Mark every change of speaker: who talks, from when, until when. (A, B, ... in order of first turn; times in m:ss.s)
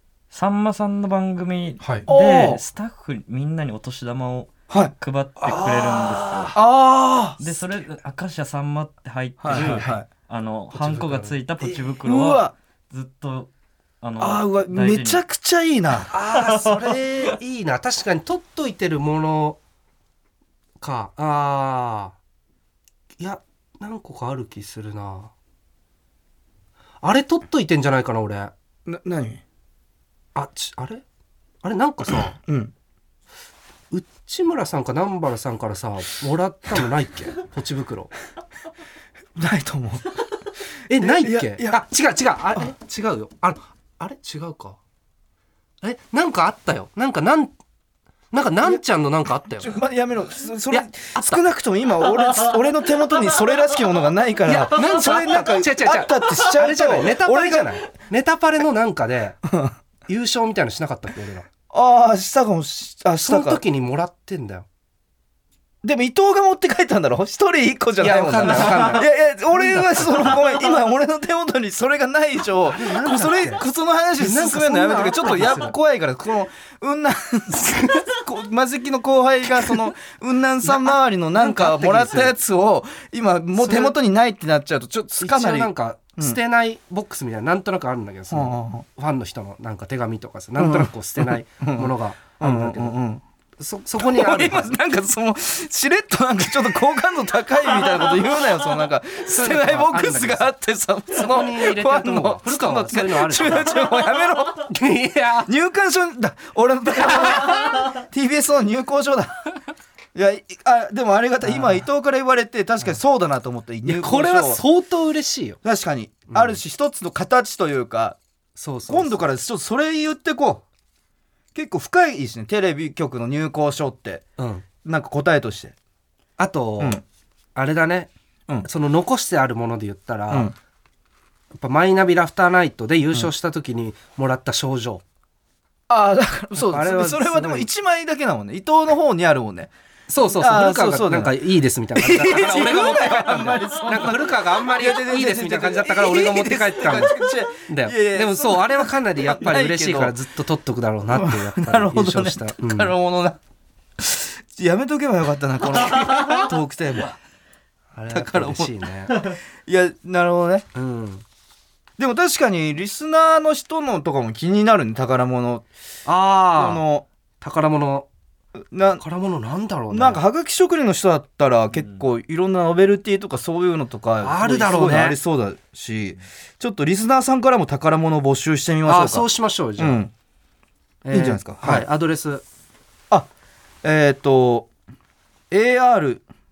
0:00.3-0:06.6 A
0:01.8-0:02.0 B
0:02.1-0:02.6 C
0:04.7-0:07.4 C
0:07.4-0:13.5 A
0:09.4-0:10.1 C
0:09.5-0:09.9 B
0:10.7-0:11.8 B
0:12.0-0:12.5 C
0:14.0-0:15.2 A
0:14.2-0:16.1 C
0:16.1-0:19.6 B
0:16.3-0:17.0 A
0:20.8-0:22.1 B
0:23.2-0:25.3 B
0:27.0-0:28.5 B
0:28.9-0:29.4 C
0:30.3-0:31.0 B
0:31.6-0:32.4 B
0:32.4-0:32.7 C
0:33.9-0:38.1 B
0:39.4-0:40.2 C
0:40.9-0:44.8 B
0:41.0-0:41.8 C
0:45.8-0:47.5 B
0:48.3-0:49.8 B
0:49.6-0:57.8 C
0:50.7-0:51.4 B
0:54.4-0:59.4 B
1:00.1-1:01.5 B
1:01.7-1:03.6 C
1:03.2-1:04.6 B
1:05.8-1:26.4 C
1:08.0-1:10.4 B
1:12.6-1:13.6 B
1:14.2-1:15.7 B
1:20.6-1:22.4 B
1:23.6-1:24.0 B
1:25.2-1:32.9 B
1:28.3-1:28.8 C
1:30.6-1:33.2 C
1:33.6-1:34.7 B
1:33.9-1:44.7 C
1:39.3-1:40.5 B
1:41.1-1:43.8 B
1:44.7-1:45.5 B
1:45.5-1:49.5 C
1:50.1-1:54.6 C
1:51.4-1:51.8 B
1:53.8-1:55.6 B
1:55.6-1:58.2 C
1:56.3-1:56.6 B
1:58.6-1:59.2 B
1:58.8-2:00.6 C
2:01.5-2:04.2 C
2:04.4-2:04.6 B
2:04.8-2:05.7 C
2:06.4-2:07.0 B
2:07.5-2:08.1 B
2:08.6-2:10.5 B
2:11.5-2:15.0 B
2:15.9-2:19.7 C
2:16.6-2:17.7 B
2:20.1-2:32.9 B
2:20.3-2:21.3 C
2:21.9-2:30.2 C
2:31.1-2:33.4 C
2:34.0-2:37.2 C
2:37.9-2:39.2 B
2:38.1-2:40.6 C
2:40.7-2:41.2 B
2:42.0-2:45.6 C
2:46.0-2:46.8 B
2:46.5-2:47.0 C
2:47.4-2:48.1 B
2:48.7-2:49.0 C
2:49.0-2:50.2 B
2:49.9-3:00.1 C
2:54.2-2:55.2 B
2:58.8-3:00.0 B
3:01.0-3:02.4 B
3:01.1-3:01.9 C
3:03.8-3:04.7 C
3:05.5-3:06.2 C